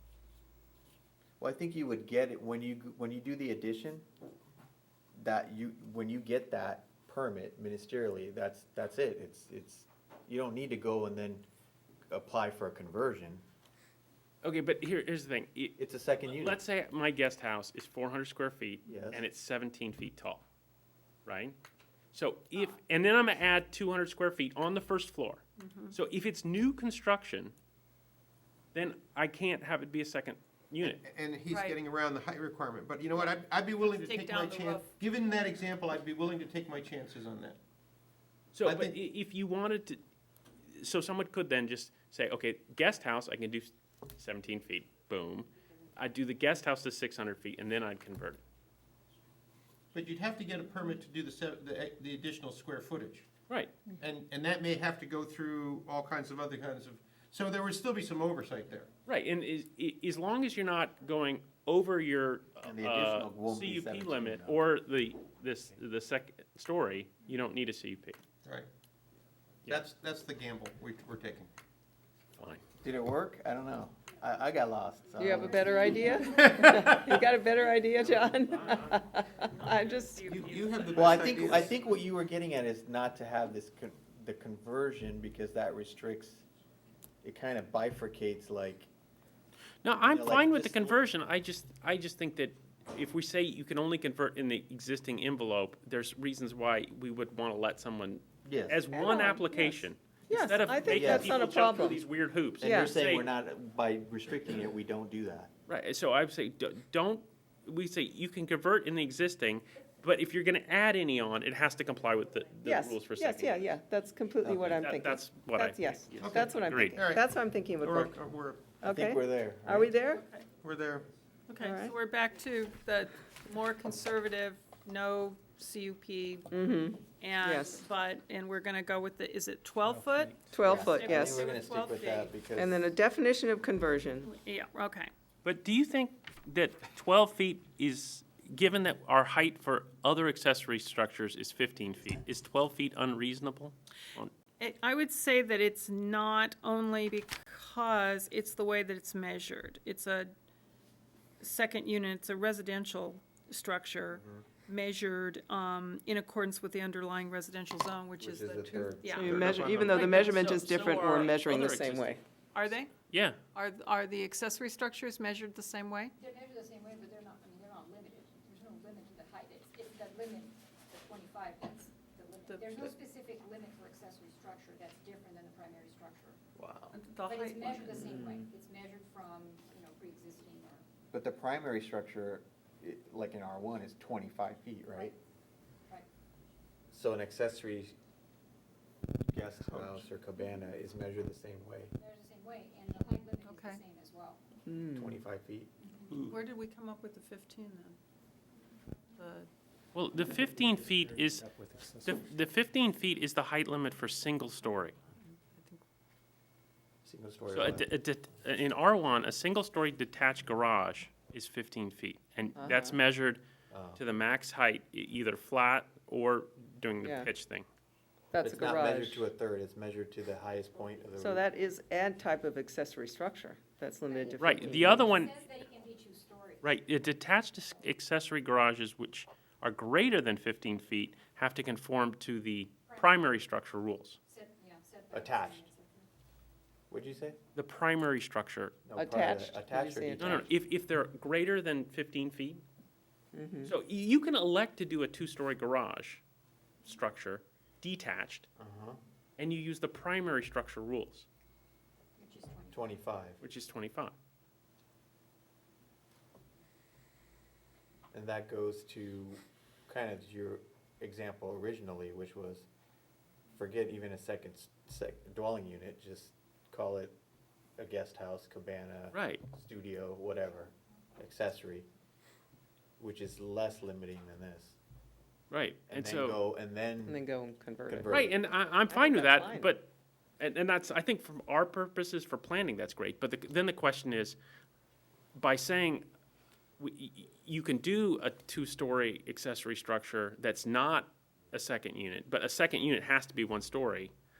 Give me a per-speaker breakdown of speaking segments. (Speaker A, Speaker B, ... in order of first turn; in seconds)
Speaker A: 1.4-4.0, 5.2-11.4, 12.1-13.4, 15.8-16.6, 18.9-19.2, 62.6-64.6, 72.8-76.0, 80.9-86.4, 87.2-88.9, 90.0-91.0, 98.4-98.8, 100.9-101.3, 102.6-105.5, 114.4-114.8, 118.8-119.9, 130.6-132.8, 154.1-154.4, 158.2-160.2, 176.6-176.9, 181.1-185.1, 186.9-187.9, 189.3-191.9, 194.9-195.7, 201.5-202.0, 207.0-207.8, 213.7-214.0, 218.4-221.4, 235.1-235.6, 236.9-237.4, 238.8-240.4, 248.6-249.0, 252.7-253.4, 258.1-262.6, 263.5-267.1, 267.8-271.9, 273.0-274.8, 275.9-277.2, 277.9-278.3
Speaker B: 14.4-20.4, 21.2-21.6, 22.1-27.5, 28.7-31.0, 38.5-40.0, 40.7-48.4, 53.5-53.8, 59.0-68.2, 72.4-72.6, 78.1-81.2, 89.8-103.3, 105.7-113.8, 114.6-117.0, 135.4-144.3, 159.3-162.2, 163.1-163.4, 196.1-196.3, 199.9-201.4, 202.0-205.0, 207.5-213.4, 213.9-217.7, 224.4-225.4, 226.6-234.2, 237.5-238.8, 240.1-242.6, 243.6-246.2, 246.8-248.5, 249.4-251.3, 253.4-254.1, 269.1-269.4, 275.5-276.4, 278.1-284.4, 285.3-286.1, 286.8-294.1
Speaker C: 25.6-25.9, 33.9-34.9, 121.5-132.3, 134.2-135.1, 144.6-150.3, 151.4-159.3, 162.5-162.9, 163.5-166.1, 172.5-172.9, 176.9-177.9, 193.4-193.8, 196.3-198.0, 199.2-199.5, 205.5-205.8
Speaker D: 30.8-37.6, 38.6-39.0, 49.9-53.3, 54.0-58.9, 69.7-71.5, 80.2-81.8, 116.2-117.3, 117.8-118.8, 120.6-121.1
Speaker E: 75.2-80.4, 98.9-102.0, 102.6-102.9, 112.6-118.1, 118.8-120.2, 121.6-122.0, 126.5-127.8, 130.4-131.4, 132.5-134.3, 159.0-162.2, 177.9-178.4, 194.7-195.2, 212.6-212.9, 217.0-217.3, 218.3-219.3, 221.2-225.1, 238.9-240.4, 243.3-243.7, 277.1-278.2, 278.8-279.7
Speaker F: 75.3-76.6, 166.2-176.4, 177.2-180.8, 192.0-194.4, 195.8-196.3, 224.1-226.9, 232.9-233.2, 234.3-236.1, 252.2-253.0